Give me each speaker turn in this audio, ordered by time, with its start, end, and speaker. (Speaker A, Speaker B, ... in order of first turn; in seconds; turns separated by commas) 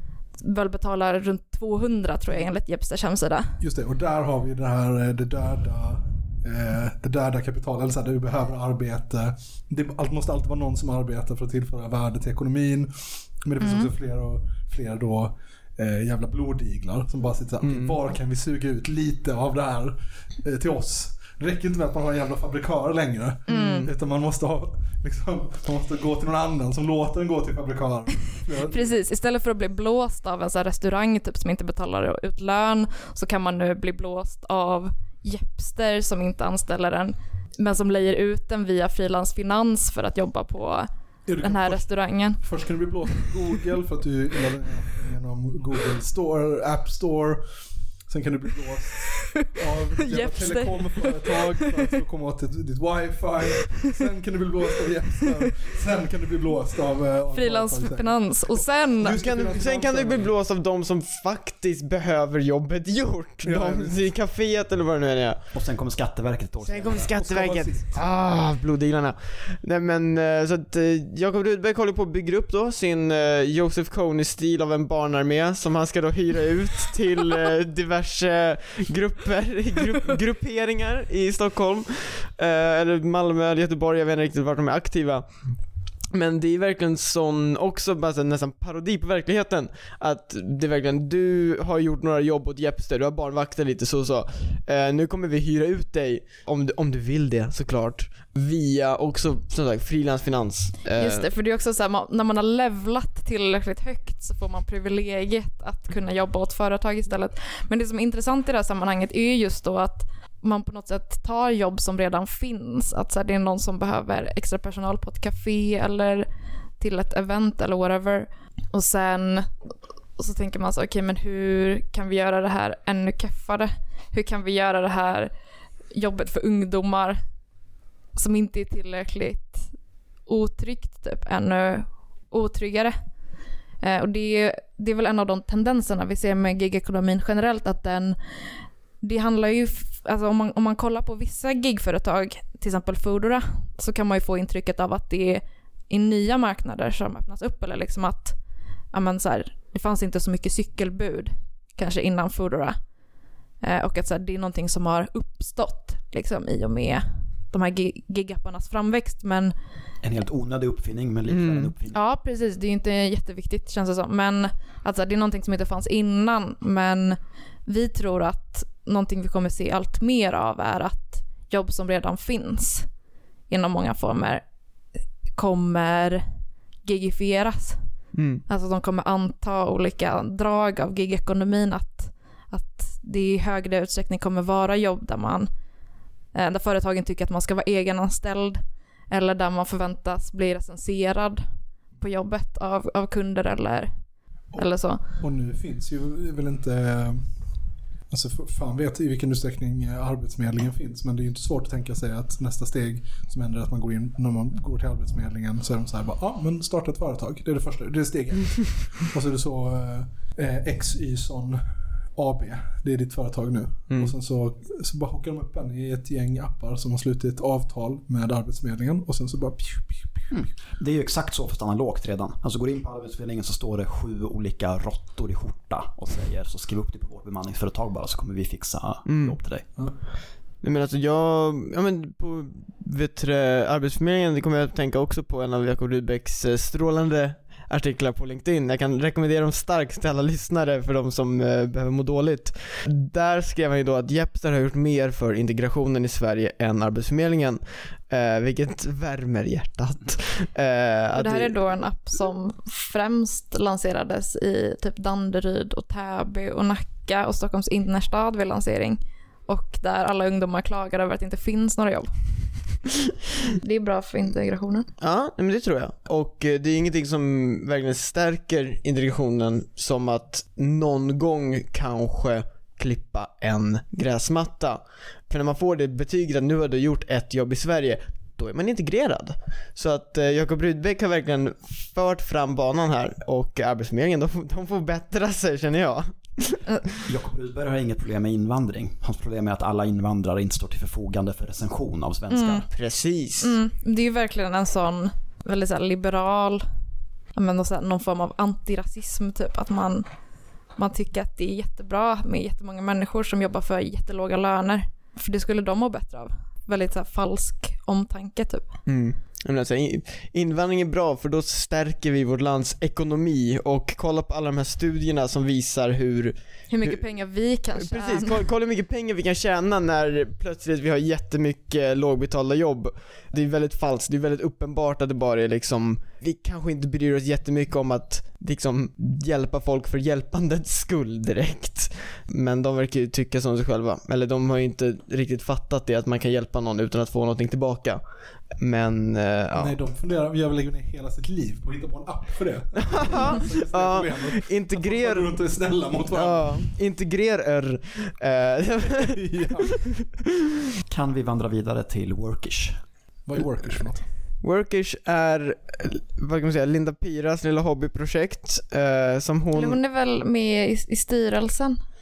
Speaker A: 0.4-3.5, Speaker B: 3.6-28.9, Speaker A: 13.6-13.9, Speaker C: 17.6-17.9, Speaker A: 23.5-23.9, Speaker C: 23.5-23.9, Speaker A: 28.7-40.9, Speaker B: 41.2-60.3, Speaker A: 41.4-42.4, Speaker A: 50.0-51.5, Speaker A: 57.3-59.2, Speaker C: 59.1-65.4, Speaker B: 63.4-64.1, Speaker D: 65.5-67.1, Speaker C: 66.6-101.3, Speaker B: 67.1-68.0, Speaker A: 101.0-116.3, Speaker A: 116.8-119.5, Speaker A: 120.2-125.3, Speaker A: 125.9-127.2, Speaker A: 128.1-129.7, Speaker A: 130.3-132.9, Speaker A: 133.8-138.2, Speaker A: 139.0-148.4, Speaker A: 148.9-152.8, Speaker A: 153.6-159.5, Speaker D: 160.0-162.0, Speaker C: 161.3-161.7, Speaker A: 161.9-172.9, Speaker A: 173.5-174.4, Speaker A: 175.3-176.2, Speaker A: 176.8-177.8, Speaker C: 178.1-178.4, Speaker A: 178.5-185.5, Speaker A: 186.3-188.6, Speaker A: 189.1-191.4, Speaker A: 192.0-193.9, Speaker A: 194.6-195.0, Speaker B: 195.2-197.3, Speaker B: 198.1-220.3, Speaker C: 213.9-214.1, Speaker D: 220.3-229.7, Speaker C: 229.1-229.4, Speaker C: 230.6-251.6, Speaker A: 251.1-262.1, Speaker A: 263.6-264.9, Speaker C: 265.0-286.6, Speaker D: 287.0-292.7, Speaker A: 292.3-292.6, Speaker C: 292.7-293.6, Speaker A: 293.4-296.6, Speaker A: 297.3-300.1, Speaker A: 300.8-308.7, Speaker C: 308.9-317.0, Speaker A: 316.7-318.4, Speaker C: 317.8-339.8, Speaker B: 339.5-346.7, Speaker C: 342.9-350.0, Speaker B: 348.9-349.9, Speaker D: 350.9-352.8, Speaker B: 353.2-354.1, Speaker C: 354.4-359.8, Speaker A: 359.5-361.8